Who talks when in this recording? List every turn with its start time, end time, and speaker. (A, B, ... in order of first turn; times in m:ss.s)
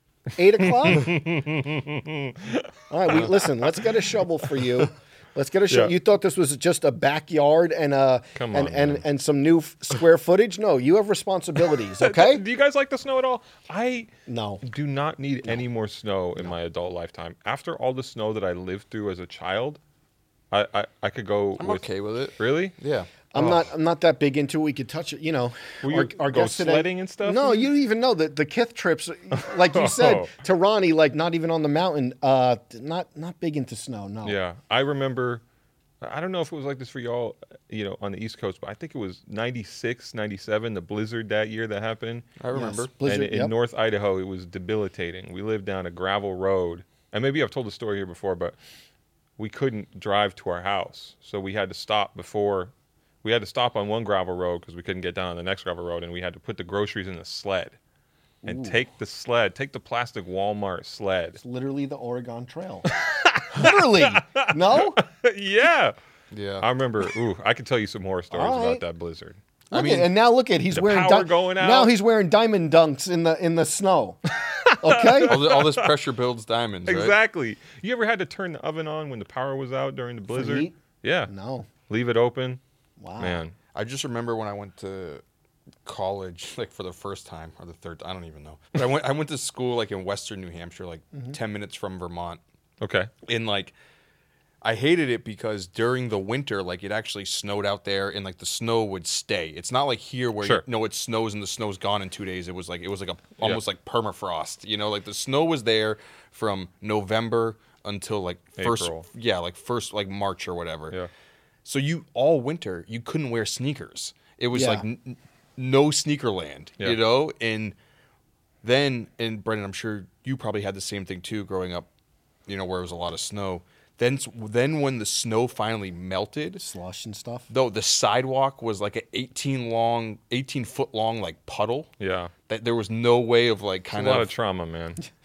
0:00.3-0:01.2 A
0:00.6-0:03.9 B
0:02.9-0:12.4 A
0:08.4-0:09.0 B
0:12.0-0:14.1 B
0:14.3-0:14.6 A
0:14.6-0:19.8 B
0:20.5-0:21.8 B
0:21.6-0:23.7 C
0:22.4-0:22.7 B
0:23.3-0:34.4 A
0:25.8-0:27.7 B
0:29.3-0:30.3 B
0:34.2-0:35.4 B
0:36.0-0:42.3 B
0:42.4-0:42.9 C
0:42.5-0:43.5 A
0:43.0-0:48.5 B
0:49.4-0:52.7 B
0:53.2-0:57.8 B
0:58.4-0:58.8 A
0:58.4-1:01.4 B
1:01.4-1:02.9 A
1:02.9-1:05.9 B
1:03.5-1:05.0 A
1:06.3-1:06.7 C
1:06.6-1:09.4 B
1:08.3-1:08.8 A
1:09.7-1:14.2 A
1:09.7-1:10.1 C
1:10.7-1:11.9 B
1:14.4-1:15.9 B
1:14.8-1:15.4 A
1:15.2-1:17.2 C
1:16.8-1:21.3 B
1:20.3-1:20.8 A
1:21.3-1:21.7 A
1:21.9-1:22.6 B
1:23.0-1:23.4 A
1:23.2-1:23.5 B
1:23.7-1:25.2 C
1:25.8-1:32.4 C
1:32.8-1:33.1 B
1:33.2-1:33.7 C
1:34.6-1:51.0 C
1:48.6-1:49.1 B
1:51.6-1:57.8 C
1:54.5-1:54.8 A
1:58.6-2:01.9 C
2:02.5-2:06.6 C
2:06.6-2:07.5 A
2:07.5-2:11.9 C
2:12.0-2:12.3 B
2:12.5-2:14.3 C
2:13.9-2:15.0 B